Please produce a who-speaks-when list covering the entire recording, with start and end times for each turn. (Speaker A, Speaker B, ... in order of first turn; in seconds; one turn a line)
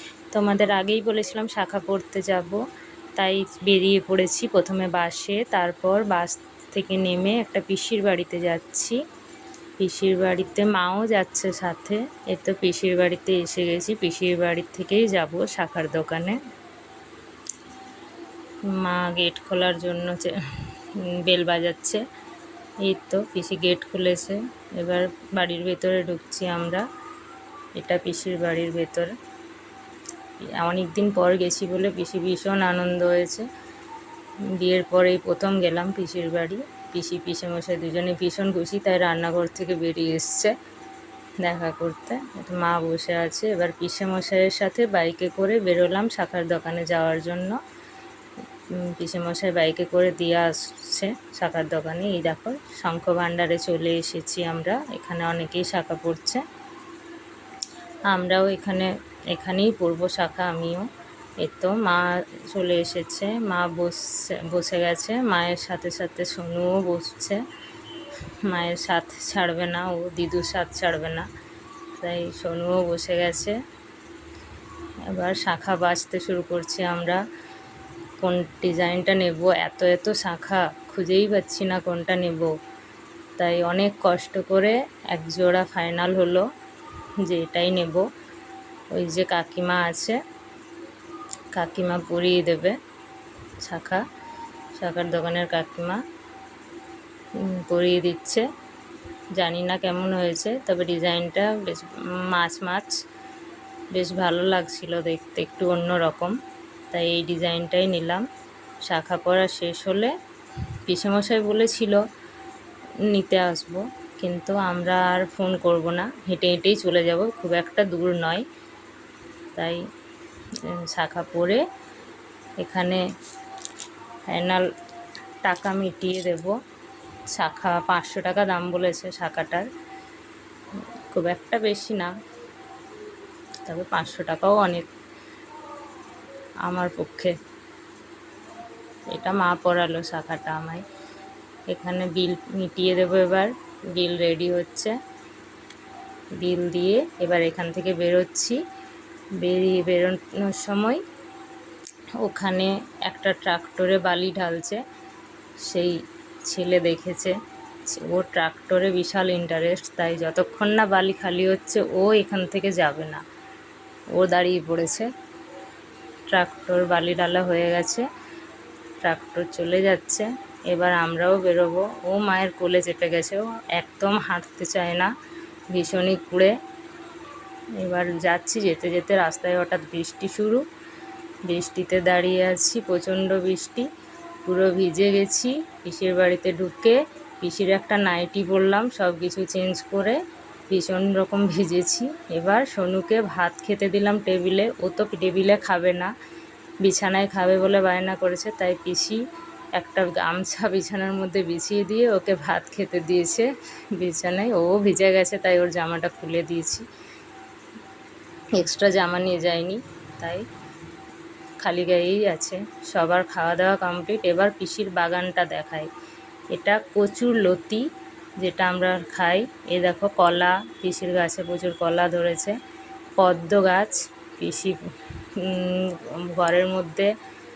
Speaker A: 0.3-2.6
Speaker A: 3.1-9.0
Speaker A: 9.8-16.4
Speaker A: 18.6-20.4
Speaker A: 20.9-22.0
Speaker A: 22.8-26.9
Speaker A: 27.8-29.1
Speaker A: 30.4-33.5
Speaker A: 34.5-40.5
Speaker A: 41.4-47.6
Speaker A: 48.7-56.4
Speaker A: 58.1-60.9
Speaker A: 61.4-67.4
Speaker A: 68.4-71.3
Speaker A: 72.0-73.6
Speaker A: 75.1-77.2
Speaker A: 78.2-82.5
Speaker A: 83.4-86.5
Speaker A: 87.2-88.0
Speaker A: 88.9-90.2
Speaker A: 91.5-92.8
Speaker A: 93.6-94.0
Speaker A: 94.8-96.0
Speaker A: 97.3-98.5
Speaker A: 99.3-103.0
Speaker A: 103.9-106.3
Speaker A: 106.9-108.2
Speaker A: 108.8-110.1
Speaker A: 110.9-112.0
Speaker A: 113.0-118.5
Speaker A: 119.5-119.8
Speaker A: 120.6-121.6
Speaker A: 122.6-123.0
Speaker A: 124.3-124.7
Speaker A: 125.4-126.5
Speaker A: 127.3-129.7
Speaker A: 131.1-132.1
Speaker A: 133.7-134.9
Speaker A: 136.6-137.4
Speaker A: 139.1-140.8
Speaker A: 141.7-145.0
Speaker A: 146.4-148.6
Speaker A: 149.4-151.0
Speaker A: 152.2-154.8
Speaker A: 155.6-163.2
Speaker A: 164.1-165.1
Speaker A: 166.3-168.1
Speaker A: 169.0-175.1
Speaker A: 175.7-176.6
Speaker A: 177.8-180.7
Speaker A: 181.5-183.9
Speaker A: 184.4-196.1
Speaker A: 196.8-199.2
Speaker A: 199.8-206.9
Speaker A: 208.5-210.5
Speaker A: 211.6-215.9
Speaker A: 216.5-217.9
Speaker A: 218.4-222.6
Speaker A: 223.2-224.8
Speaker A: 225.3-227.1